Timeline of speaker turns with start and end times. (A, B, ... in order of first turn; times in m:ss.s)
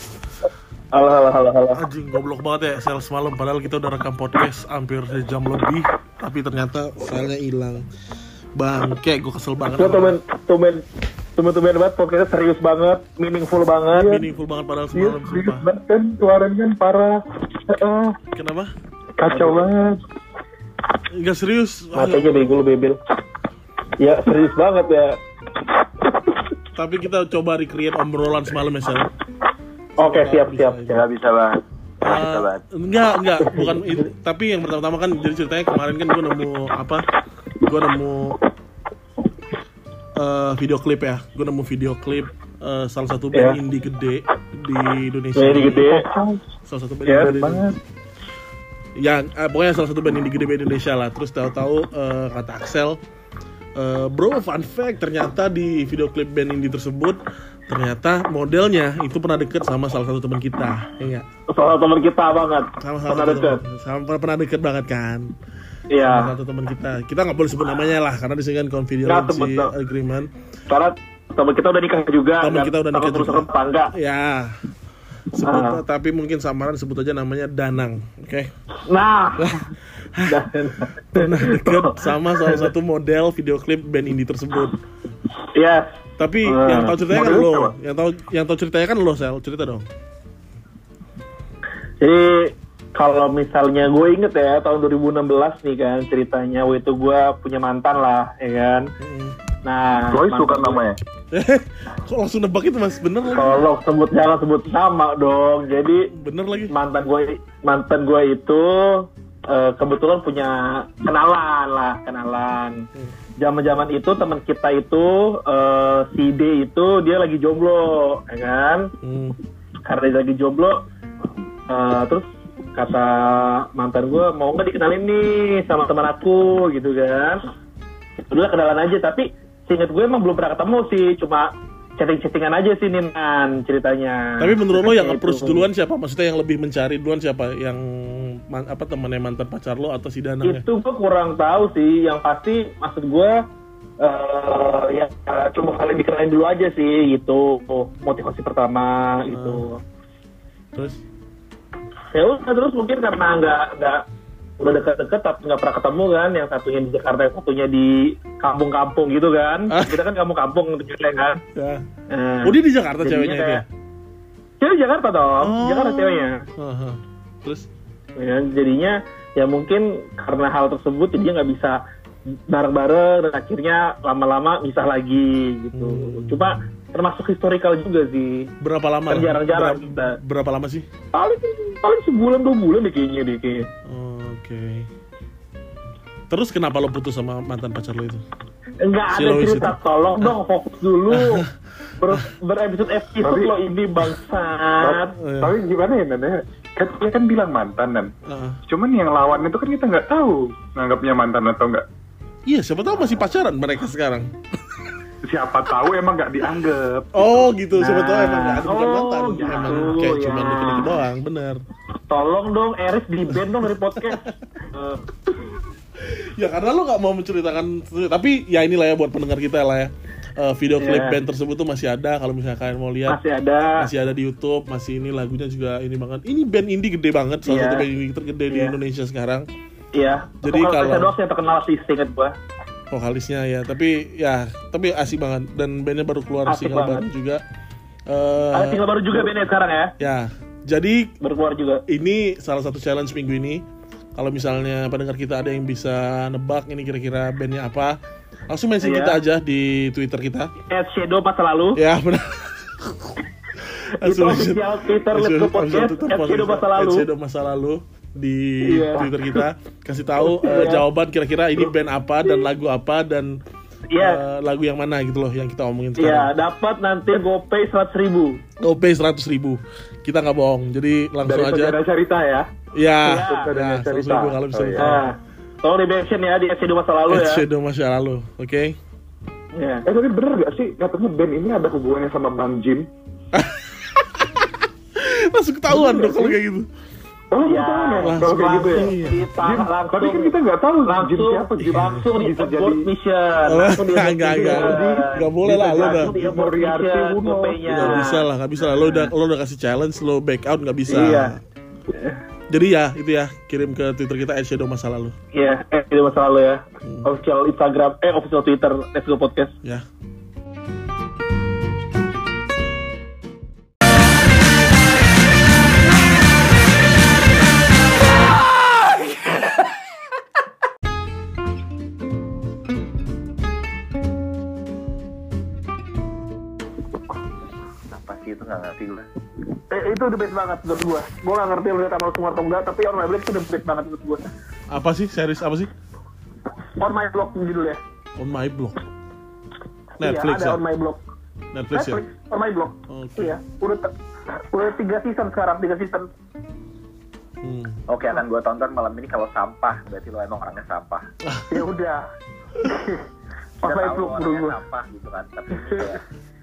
0:00.9-0:01.8 A
0:01.7-0:07.8 B
0:08.6-0:10.2 B
0:09.8-0:10.8 A
0:11.4-0:14.2 A
0:14.0-0:15.7 B
0:14.9-0:18.2 C
0:18.3-0:18.7 B
0:19.2-0:20.0 C
0:19.3-0:19.7 A
0:21.1-0:22.4 B
0:22.0-0:23.0 A
0:24.0-0:25.2 A
0:26.8-0:29.1 B
0:30.0-0:31.0 B
0:30.0-0:31.0 A
0:30.9-0:32.6 D
0:32.0-0:37.1 B
0:37.6-0:38.4 B
0:40.2-0:46.0 B
0:43.3-0:43.6 A
0:45.4-0:46.1 A
0:46.0-0:46.4 C
0:46.7-0:47.8 B
0:47.0-0:47.3 A
0:47.2-0:47.8 C
0:49.0-0:53.0 B
0:53.8-1:01.3 B
1:01.5-1:03.6 A
1:02.8-1:05.3 B
1:05.9-1:06.3 A
1:06.0-1:10.3 B
1:09.1-1:09.7 A
1:10.7-1:13.9 A
1:12.4-1:14.5 B
1:15.3-1:18.5 B
1:15.4-1:15.8 A
1:18.8-1:19.6 A
1:19.4-1:20.4 B
1:20.3-1:22.7 A
1:21.1-1:24.8 B
1:25.5-1:27.0 A
1:26.2-1:29.9 B
1:27.1-1:27.7 C
1:32.0-1:38.9 A
1:39.0-1:39.4 B
1:39.6-1:40.8 A
1:40.1-1:41.0 C
1:41.3-1:43.6 B
1:43.3-1:46.1 A
1:46.1-1:46.7 B
1:46.7-1:52.9 A
1:53.4-1:58.9 A
1:59.0-1:59.4 B
1:59.8-2:00.8 A
2:01.7-2:07.5 A
2:08.2-2:15.7 A
2:14.4-2:20.6 B
2:20.4-2:23.4 A
2:24.0-2:29.8 A
2:29.3-2:29.6 B
2:30.7-2:31.0 B
2:32.1-2:34.0 A
2:34.6-2:41.4 A
2:39.7-2:40.0 B
2:41.6-2:41.9 B
2:42.1-2:43.6 A
2:42.4-2:43.6 B
2:44.6-2:46.4 A
2:45.4-2:47.7 B
2:48.2-2:51.8 A
2:52.5-2:58.5 A
2:55.7-2:56.4 B
2:58.6-3:00.9 B
2:59.1-3:00.2 A
3:01.1-3:03.7 A
3:03.9-3:04.9 B
3:06.3-3:08.2 B
3:08.8-3:11.4 A
3:09.1-3:10.4 B
3:11.1-3:11.5 B
3:12.0-3:15.2 A
3:13.2-3:13.5 C
3:14.8-3:18.1 C
3:15.2-3:15.6 B
3:18.3-3:18.6 B
3:18.7-3:21.8 C
3:22.5-3:24.3 B
3:25.2-3:27.5 C
3:27.1-3:31.6 B
3:27.8-3:31.0 A
3:32.1-3:35.6 A
3:36.0-3:43.2 B
3:40.8-3:41.2 A
3:43.1-3:43.9 A
3:43.8-3:49.5 B
3:47.5-3:47.9 A
3:48.5-3:48.8 A
3:50.0-3:52.4 A
3:50.4-3:51.1 B
3:52.9-3:57.4 B
3:56.5-3:57.1 A
3:58.1-3:58.8 B
3:58.5-3:59.9 A
4:00.0-4:01.1 B
4:01.2-4:01.8 A
4:01.9-4:03.6 B
4:04.2-4:08.0 B
4:08.5-4:10.5 B
4:08.8-4:09.2 A
4:10.7-4:11.8 A
4:11.8-4:23.3 B
4:14.0-4:17.1 A
4:18.6-4:19.1 A
4:20.3-4:20.9 A
4:23.9-4:24.2 A
4:24.0-4:26.3 B
4:26.0-4:28.4 A
4:28.6-4:31.8 B
4:31.3-4:32.5 C
4:32.8-4:35.1 B
4:33.0-4:33.5 A
4:33.2-4:35.1 C
4:34.8-4:37.4 A
4:37.1-4:38.8 B
4:39.5-4:39.9 A
4:39.9-4:42.9 C
4:43.3-4:46.7 B
4:45.8-4:46.1 A
4:47.3-4:52.9 C
4:47.4-4:59.1 A
4:48.0-4:49.3 B
4:51.6-4:52.0 B
4:53.5-4:56.2 B
4:54.3-4:58.1 C
4:57.7-5:01.4 B
5:00.9-5:01.4 A
5:01.9-5:02.2 A
5:02.5-5:05.2 B
5:05.3-5:09.6 A
5:06.8-5:07.1 B
5:27.9-5:29.1 D
5:29.7-5:34.3 E
5:34.7-5:35.7 B
5:36.8-5:37.8 E
5:38.2-5:38.8 B
5:40.0-5:40.6 B
5:40.0-5:41.0 E
5:41.5-5:42.0 B
5:41.7-5:43.9 E
5:42.9-5:43.4 B
5:44.5-5:46.1 E
5:47.4-5:47.8 B
5:47.9-5:51.0 D
5:51.2-5:51.6 B
5:51.5-5:52.0 E
5:52.6-5:53.0 E
5:53.6-5:54.6 E
5:53.6-5:56.0 D